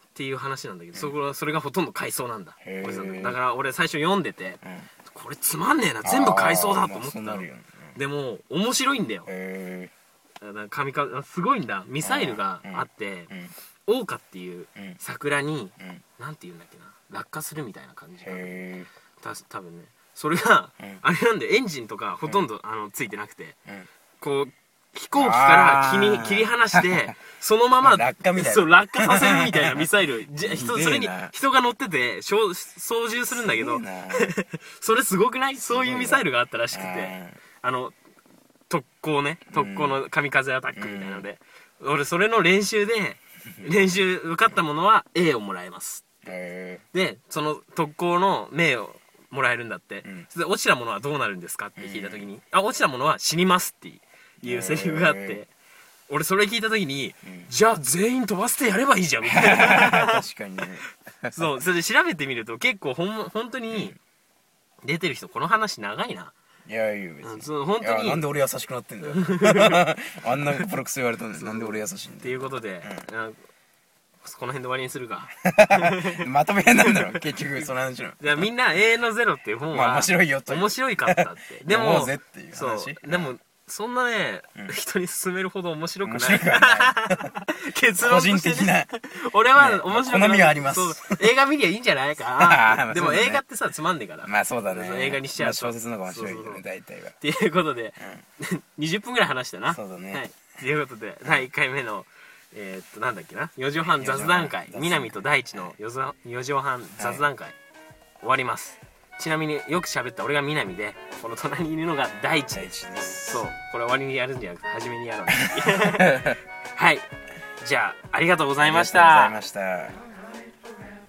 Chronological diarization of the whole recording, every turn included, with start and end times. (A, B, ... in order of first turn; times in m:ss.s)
0:00.1-0:09.3 A
0:02.6-0:03.4 B
0:04.6-0:04.9 B
0:06.0-0:08.0 B
0:09.2-0:09.9 B
0:10.4-0:13.3 A
0:12.0-0:13.5 B
0:13.9-0:18.6 A
0:18.2-0:18.9 B
0:19.2-0:23.6 A
0:24.2-0:37.9 A
0:25.2-0:27.1 B
0:27.8-0:31.3 B
0:33.3-0:34.3 B
0:35.6-0:37.4 B
0:38.7-0:46.0 A
0:39.5-0:40.0 B
0:40.7-0:41.2 B
0:46.2-0:46.8 B
0:46.9-0:55.5 A
0:51.8-0:52.2 B
0:54.4-0:55.4 B
0:56.1-1:00.2 A
0:57.2-0:57.5 B
0:59.2-1:01.5 B
1:01.3-1:04.0 A
1:04.8-1:06.3 A
1:06.6-1:13.0 B
1:07.2-1:08.2 A
1:09.0-1:09.8 A
1:11.4-1:13.4 A
1:14.2-1:16.2 A
1:15.4-1:18.5 B
1:16.8-1:17.2 A
1:18.2-1:36.6 A
1:19.7-1:23.3 B
1:26.0-1:27.4 B
1:28.0-1:28.9 B
1:29.6-1:31.3 B
1:32.4-1:33.4 B
1:34.2-1:37.2 B
1:37.2-1:47.6 A
1:39.7-1:40.2 B
1:43.8-1:45.7 B
1:47.0-1:47.2 B
1:48.2-1:57.0 A
1:52.5-1:53.4 B
1:55.4-1:56.4 B
1:57.6-1:59.4 A
1:58.6-2:00.0 B